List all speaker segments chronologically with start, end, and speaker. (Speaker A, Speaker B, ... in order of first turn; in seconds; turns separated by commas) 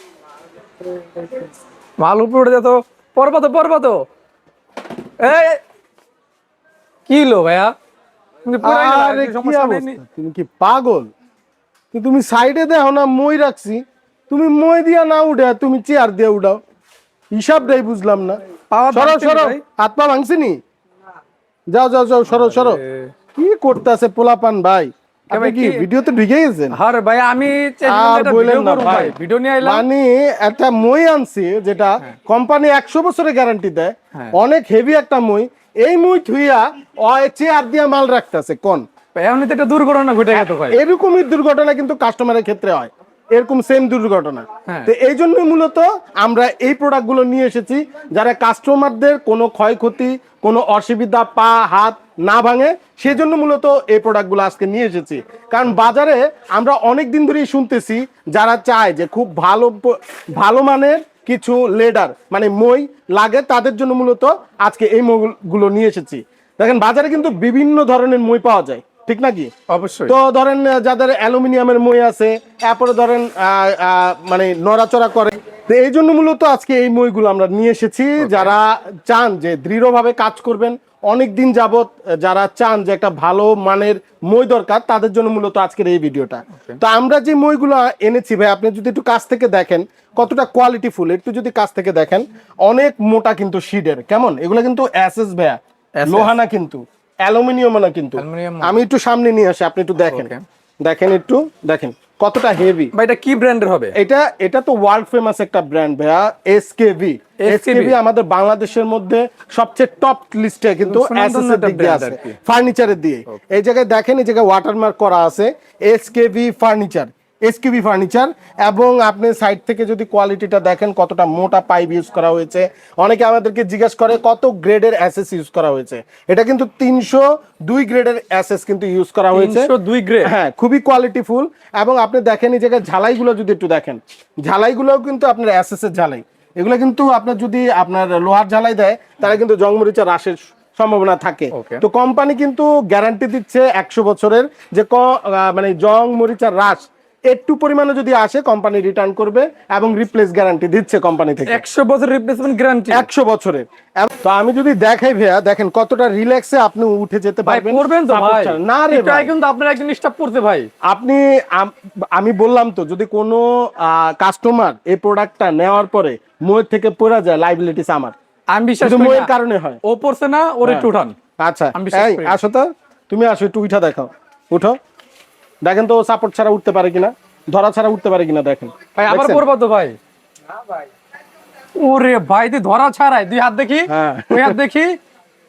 Speaker A: 2.0-4.0, Speaker A: 5.2-5.6, Speaker A: 7.1-7.7, Speaker A: 8.5-10.0, Speaker B: 8.6-11.1, Speaker B: 11.9-16.6, Speaker B: 17.4-18.4, Speaker A: 18.7-19.6, Speaker B: 18.9-20.6, Speaker B: 21.7-22.8, Speaker A: 22.3-23.1, Speaker B: 23.4-26.8, Speaker A: 25.3-25.9, Speaker A: 26.7-29.9, Speaker B: 27.9-38.9, Speaker A: 39.1-40.8, Speaker B: 40.3-69.5, Speaker A: 44.7-44.9, Speaker A: 69.7-70.2, Speaker B: 70.1-100.3, Speaker A: 78.2-78.5, Speaker A: 86.5-86.8, Speaker A: 96.0-96.3, Speaker A: 98.2-98.8, Speaker A: 100.1-100.4, Speaker B: 100.8-102.9, Speaker A: 102.9-104.0, Speaker B: 104.0-129.7, Speaker A: 107.4-108.0, Speaker A: 110.8-112.3, Speaker A: 129.3-130.3, Speaker B: 130.2-151.6, Speaker A: 141.5-141.8, Speaker A: 151.5-153.1, Speaker B: 152.9-159.3, Speaker A: 157.4-160.7, Speaker B: 160.9-168.1, Speaker A: 168.5-169.3, Speaker B: 168.8-169.8, Speaker A: 169.8-171.2, Speaker B: 171.4-174.8, Speaker A: 171.7-172.4, Speaker B: 175.6-179.4, Speaker A: 178.9-180.0, Speaker A: 181.8-185.0, Speaker B: 183.9-184.6